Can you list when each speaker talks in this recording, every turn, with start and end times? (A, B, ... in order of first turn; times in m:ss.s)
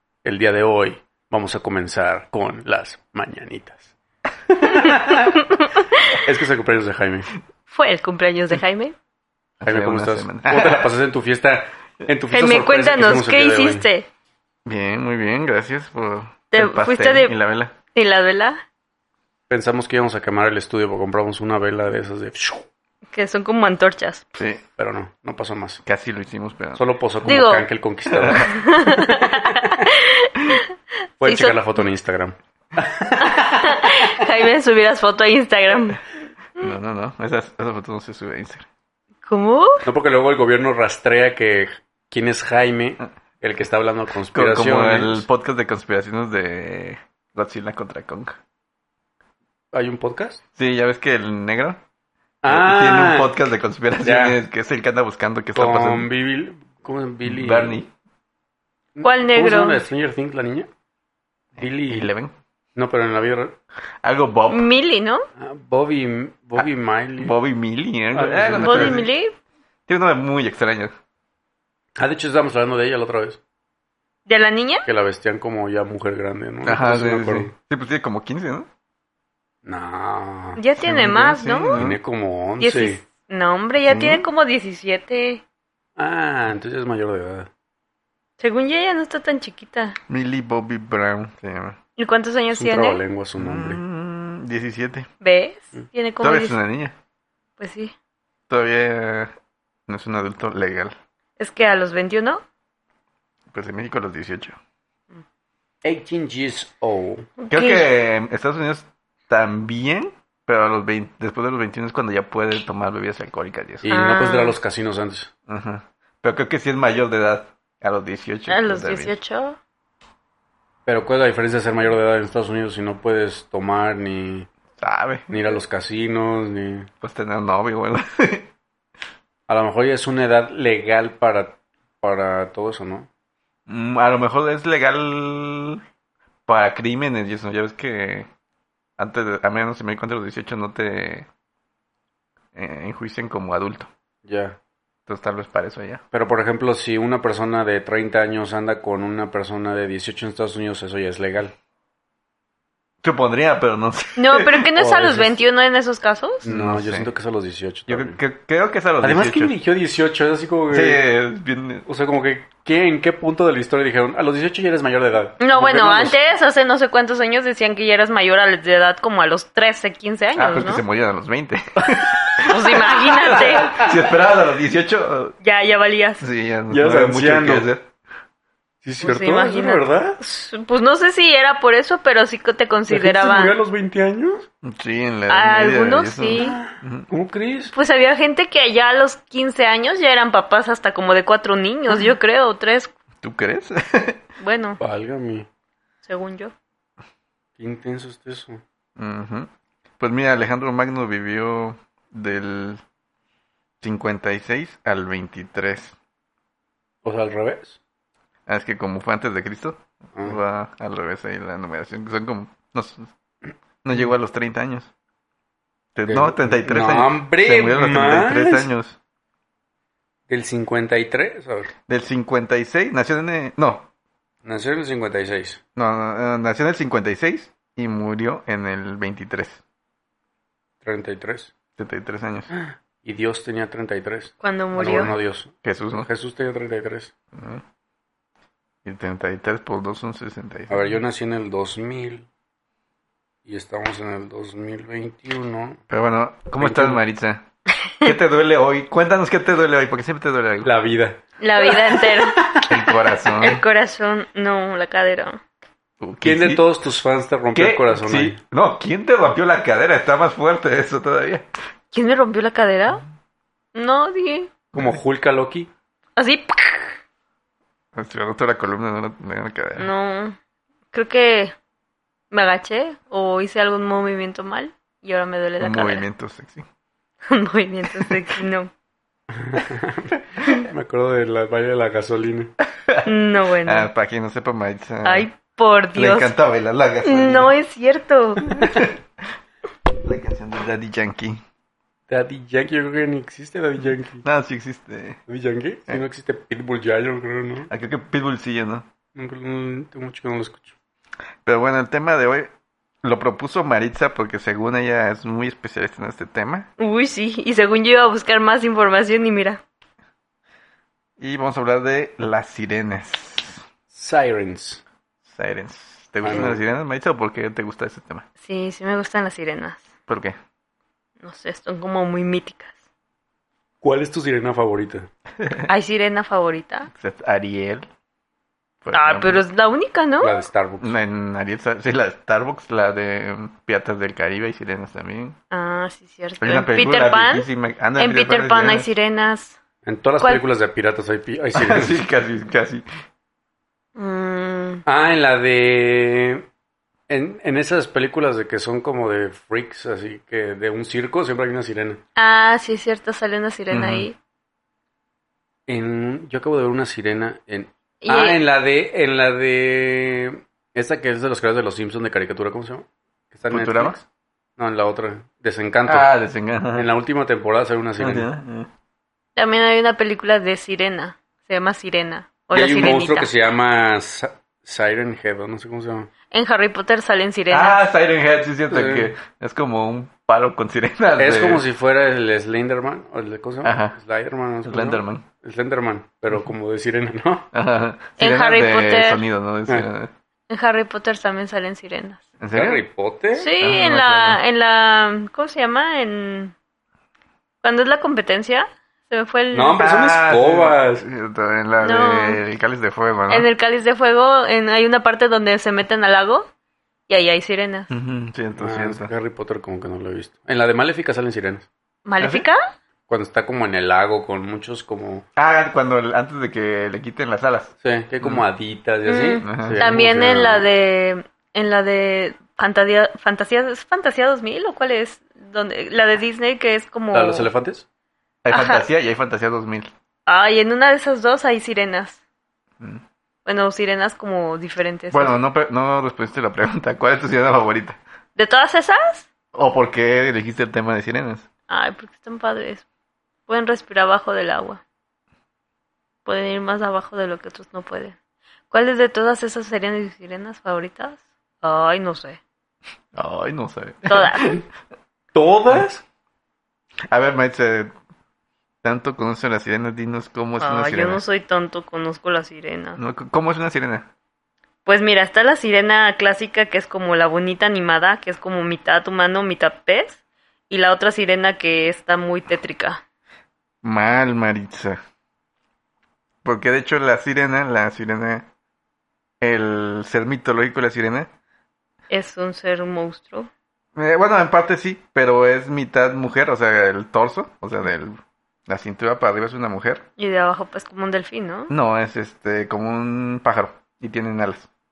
0:00.2-0:03.9 A
0:04.6-0:05.4 A
0:04.6-0:06.2 B
0:06.1-0:07.3 A
0:07.7-0:09.0 B
0:09.6-0:10.9 C
0:09.6-0:13.9 A
0:12.3-0:14.1 B
0:14.7-0:17.7 C
0:16.5-0:17.4 B
0:17.9-0:18.6 B
0:19.5-0:22.7 A
0:23.1-0:24.2 B
0:24.4-0:24.6 C
0:24.8-0:25.8 A
0:25.8-0:26.8 C
0:26.8-0:29.6 A
0:27.3-0:27.6 B
0:28.1-0:28.6 C
0:28.3-0:30.7 B
0:31.2-0:34.1 A
0:31.2-0:31.6 B
0:33.2-0:36.0 B
0:36.6-0:38.7 C
0:39.3-0:39.8 B
0:39.8-0:45.2 A
0:44.3-0:48.4 C
0:49.7-0:50.4 A
0:50.6-0:51.8 C
0:52.4-0:53.3 A
0:52.5-0:56.1 C
0:54.0-0:54.4 A
0:55.6-0:57.8 A
0:57.2-0:57.9 C
0:59.0-1:00.7 A
0:59.0-0:59.8 B
1:01.6-1:02.3 C
1:01.6-1:02.1 A
1:02.8-1:03.6 A
1:04.0-1:04.7 C
1:04.5-1:05.2 B
1:05.4-1:07.4 A
1:06.6-1:09.1 C
1:08.1-1:09.0 A
1:08.6-1:09.4 B
1:09.9-1:10.9 C
1:12.0-1:13.4 A
1:14.3-1:14.9 B
1:14.8-1:17.5 A
1:16.6-1:18.7 C
1:19.6-1:20.6 A
1:20.6-1:21.8 B
1:20.8-1:22.0 C
1:21.8-1:23.0 A
1:22.6-1:25.4 B
1:23.9-1:24.2 C
1:26.0-1:27.5 A
1:28.4-1:30.0 B
1:30.1-1:31.8 C
1:32.0-1:33.0 B
1:32.5-1:33.8 A
1:33.4-1:35.1 C
1:35.2-1:36.6 B
1:36.2-1:37.0 C
1:37.6-1:37.9 B
1:38.5-1:39.3 C
1:39.9-1:41.0 C
1:41.4-1:42.4 B
1:43.5-1:44.6 C
1:45.8-1:47.3 A
1:47.4-1:47.9 B
1:47.5-1:53.9 C
1:53.8-1:55.3 A
1:53.9-1:54.6 B
1:55.5-1:59.1 C
1:58.5-1:59.6 B
2:00.9-2:04.5 A
2:04.8-2:05.3 C
2:05.3-2:06.9 A
2:07.0-2:08.5 C
2:09.5-2:13.1 A
2:13.7-2:15.8 C
2:16.5-2:18.3 C
2:19.0-2:21.3 C
2:22.5-2:23.9 C
2:24.2-2:24.6 A
2:25.1-2:26.0 C
2:26.1-2:31.5 A
2:33.0-2:34.7 C
2:34.2-2:36.4 B
2:34.8-2:35.4 A
2:36.4-2:38.2 A
2:36.5-2:37.1 C
2:37.9-2:39.6 C
2:39.0-2:41.0 A
2:40.7-2:41.8 C
2:41.9-2:46.2 A
2:45.4-2:50.8 B
2:50.4-2:55.4 C
2:52.4-2:53.8 B
2:53.3-2:54.0 A
2:55.4-2:56.3 B
2:56.2-2:57.9 C
2:56.7-2:57.7 A
2:58.8-3:00.2 A
2:59.0-3:03.6 B
3:02.9-3:04.5 A
3:04.6-3:07.1 C
3:05.3-3:06.6 B
3:06.4-3:07.7 A
3:07.7-3:12.9 B
3:13.2-3:14.2 C
3:14.4-3:14.8 B
3:14.8-3:15.5 A
3:16.0-3:16.5 B
3:17.6-3:18.6 A
3:19.0-3:22.8 C
3:23.8-3:26.0 C
3:27.0-3:27.8 A
3:28.5-3:33.1 C
3:33.8-3:34.9 C
3:36.0-3:39.0 C
3:36.1-3:38.7 A
3:40.3-3:41.7 A
3:41.9-3:43.9 C
3:44.4-3:45.6 A
3:45.8-3:49.6 C
3:50.8-3:51.5 A
3:51.8-3:52.5 C
3:52.5-3:57.1 A
3:54.4-3:55.1 B
3:55.6-3:56.1 C
3:57.3-3:57.6 C
3:58.8-4:01.0 C
4:00.7-4:02.3 A
4:03.5-4:05.8 A
4:05.9-4:07.4 C
4:06.6-4:07.0 A
4:08.0-4:10.7 C
4:10.6-4:12.8 A
4:11.4-4:12.4 B
4:12.7-4:13.6 C
4:13.4-4:15.4 B
4:16.0-4:16.6 C
4:16.2-4:18.4 A
4:17.5-4:21.5 C
4:21.9-4:23.0 B
4:23.8-4:24.5 B
4:24.8-4:25.7 A
4:26.2-4:27.0 B
4:28.0-4:29.9 C
4:29.8-4:30.4 B
4:30.9-4:31.6 B
4:32.3-4:36.0 B
4:35.6-4:36.7 C
4:37.3-4:38.7 B
4:39.3-4:42.5 A
4:42.8-4:43.1 C
4:43.1-4:43.9 B
4:43.6-4:45.3 C
4:45.0-4:46.4 B
4:46.0-4:47.5 C
4:47.0-4:48.6 B
4:48.5-4:49.0 C
4:49.9-4:51.4 C
4:52.1-4:54.2 A
4:53.8-4:55.2 C
4:55.3-4:57.7 A
4:57.7-4:58.9 C
4:59.2-5:00.7 A
5:01.4-5:02.5 C
5:03.0-5:06.7 C
5:06.8-5:09.6 B
5:11.2-5:13.6 C
5:13.9-5:14.8 A
5:15.3-5:18.2 C
5:16.2-5:16.6 A
5:18.4-5:19.9 B
5:20.1-5:20.4 C
5:21.2-5:22.7 B
5:23.8-5:25.1 A
5:25.4-5:25.7 C
5:25.7-5:26.9 B
5:26.9-5:27.9 C
5:28.8-5:29.4 C
5:28.9-5:30.4 B
5:30.2-5:30.9 A
5:30.8-5:35.4 C
5:35.5-5:39.6 B
5:36.4-5:38.9 C
5:39.8-5:42.0 A
5:41.5-5:42.9 C
5:44.0-5:44.8 B
5:44.9-5:46.5 A
5:47.1-5:52.0 A
5:52.2-5:54.2 B
5:53.7-5:54.1 C
5:55.7-6:04.0 A
5:58.0-5:58.4 B
6:03.5-6:04.0 C
6:04.6-6:06.1 A
6:05.9-6:06.9 C
6:06.8-6:08.3 A
6:08.0-6:08.7 C
6:09.4-6:13.3 B
6:12.5-6:16.1 A
6:16.3-6:17.8 B
6:17.5-6:21.6 C
6:18.7-6:19.1 A
6:21.2-6:27.5 A
6:23.6-6:24.0 C
6:24.7-6:25.3 C
6:27.5-6:30.1 C
6:28.2-6:29.2 B
6:30.5-6:32.2 B
6:32.4-6:32.8 C
6:32.5-6:33.5 A
6:33.4-6:36.5 B
6:33.6-6:34.4 C
6:37.6-6:39.8 B
6:39.5-6:41.1 A
6:39.8-6:43.5 C
6:41.8-6:42.4 B
6:43.3-6:46.5 B
6:47.1-6:47.9 B
6:47.9-6:49.1 C
6:48.6-6:51.7 A
6:52.1-6:52.7 B
6:52.2-6:52.5 C
6:53.1-6:55.3 A
6:55.4-6:58.5 C
6:57.8-7:00.7 A
6:59.1-7:07.5 B
6:59.4-6:59.9 C
7:07.1-7:07.8 A
7:08.4-7:09.9 C
7:08.5-7:08.8 B
7:10.3-7:12.2 B
7:13.5-7:15.4 B
7:15.1-7:18.0 C
7:18.4-7:19.3 B
7:19.5-7:21.4 C
7:21.7-7:22.9 B
7:23.5-7:24.8 B
7:26.3-7:28.2 B
7:28.7-7:32.4 B
7:33.1-7:34.6 C
7:34.1-7:34.6 B
7:35.3-7:36.0 A
7:37.1-7:37.9 C
7:38.8-7:41.2 C
7:40.6-7:43.0 B
7:43.0-7:44.1 C
7:44.9-7:53.0 B
7:53.8-7:55.0 C
7:56.4-7:58.5 C
7:59.4-8:01.3 C
8:02.1-8:03.5 B
8:04.0-8:10.0 C
8:10.2-8:11.7 B
8:11.7-8:14.7 C